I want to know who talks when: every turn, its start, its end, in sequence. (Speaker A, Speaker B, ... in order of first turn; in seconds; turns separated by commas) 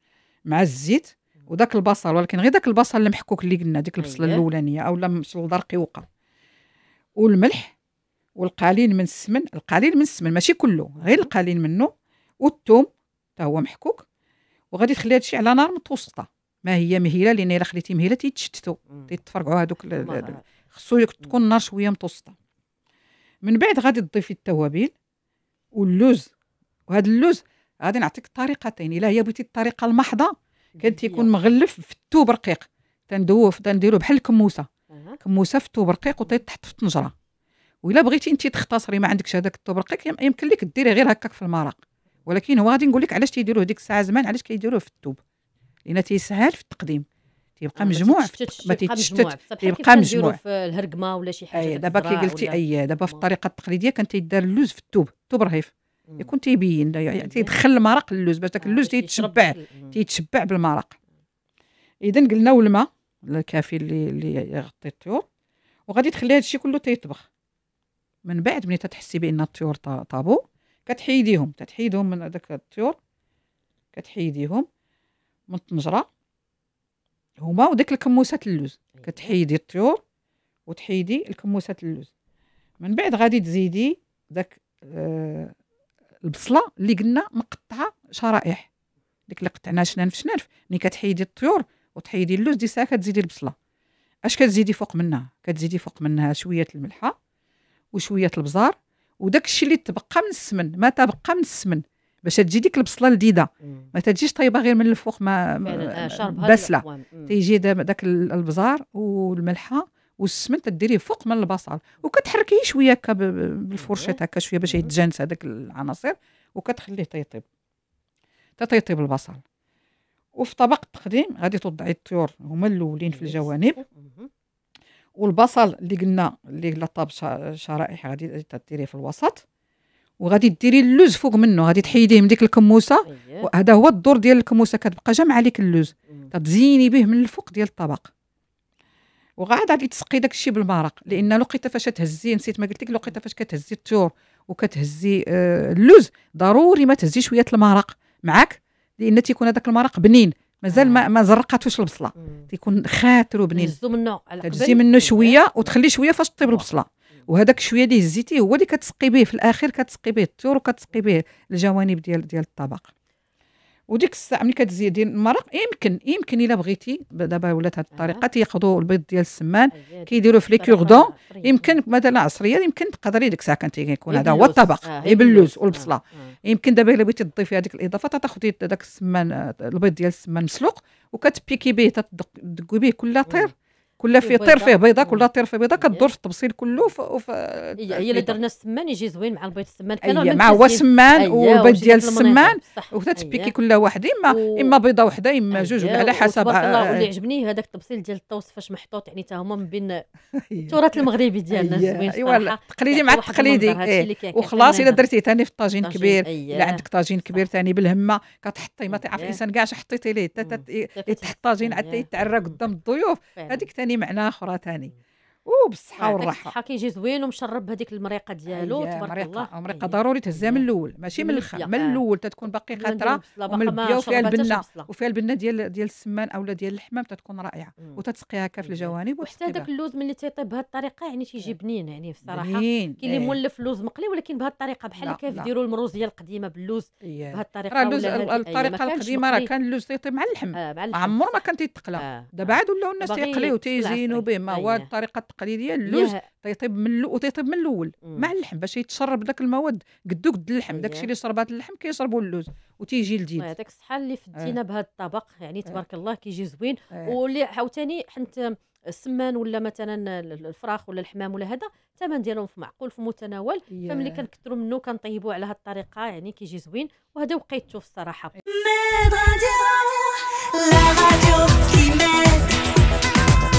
Speaker A: 0.5-6.0, Speaker B: 4.0-4.4, Speaker A: 7.2-7.7, Speaker A: 8.4-14.0, Speaker B: 11.0-11.3, Speaker A: 14.7-22.3, Speaker B: 19.9-20.4, Speaker A: 23.4-24.9, Speaker A: 25.7-26.3, Speaker A: 26.9-34.7, Speaker B: 30.8-31.3, Speaker B: 34.9-35.2, Speaker A: 35.2-37.1, Speaker A: 37.8-45.2, Speaker A: 45.9-47.0, Speaker A: 47.6-50.4, Speaker B: 47.7-53.2, Speaker A: 51.5-61.0, Speaker B: 57.1-57.5, Speaker B: 58.6-60.0, Speaker A: 62.0-65.2, Speaker A: 65.9-67.2, Speaker A: 68.2-73.0, Speaker A: 73.9-74.7, Speaker A: 75.5-76.1, Speaker A: 77.4-80.0, Speaker B: 79.0-79.3, Speaker A: 80.7-82.1, Speaker A: 82.8-85.5, Speaker A: 86.2-88.7, Speaker A: 89.3-93.5, Speaker A: 94.2-97.1, Speaker A: 97.9-117.5, Speaker B: 103.6-103.9, Speaker B: 105.6-107.3, Speaker B: 113.8-114.9, Speaker A: 118.6-119.4, Speaker A: 120.4-123.8, Speaker B: 123.1-124.3, Speaker A: 125.2-129.4, Speaker A: 130.2-138.1, Speaker B: 133.1-133.5, Speaker A: 139.4-153.8, Speaker B: 150.7-151.1, Speaker B: 152.2-152.5, Speaker B: 153.5-155.7, Speaker A: 154.4-162.9, Speaker A: 163.9-188.4, Speaker B: 167.9-168.2, Speaker B: 169.7-171.8, Speaker B: 174.1-176.3, Speaker B: 183.2-183.5, Speaker B: 184.1-186.1, Speaker B: 187.8-193.5, Speaker A: 190.0-197.1, Speaker B: 194.3-194.7, Speaker B: 195.5-200.0, Speaker A: 200.4-214.9, Speaker B: 200.7-205.1, Speaker B: 205.8-207.5, Speaker B: 208.9-209.4, Speaker B: 210.4-212.6, Speaker B: 213.4-213.7, Speaker A: 215.4-216.5, Speaker B: 216.0-222.0, Speaker A: 218.5-229.7, Speaker B: 222.7-224.9, Speaker B: 228.6-239.5, Speaker A: 232.2-233.4, Speaker A: 235.0-235.5, Speaker A: 237.0-253.5, Speaker B: 240.5-241.4, Speaker B: 242.0-244.9, Speaker B: 245.8-246.2, Speaker B: 248.0-248.3, Speaker B: 250.7-251.1, Speaker B: 253.4-272.7, Speaker A: 263.7-264.2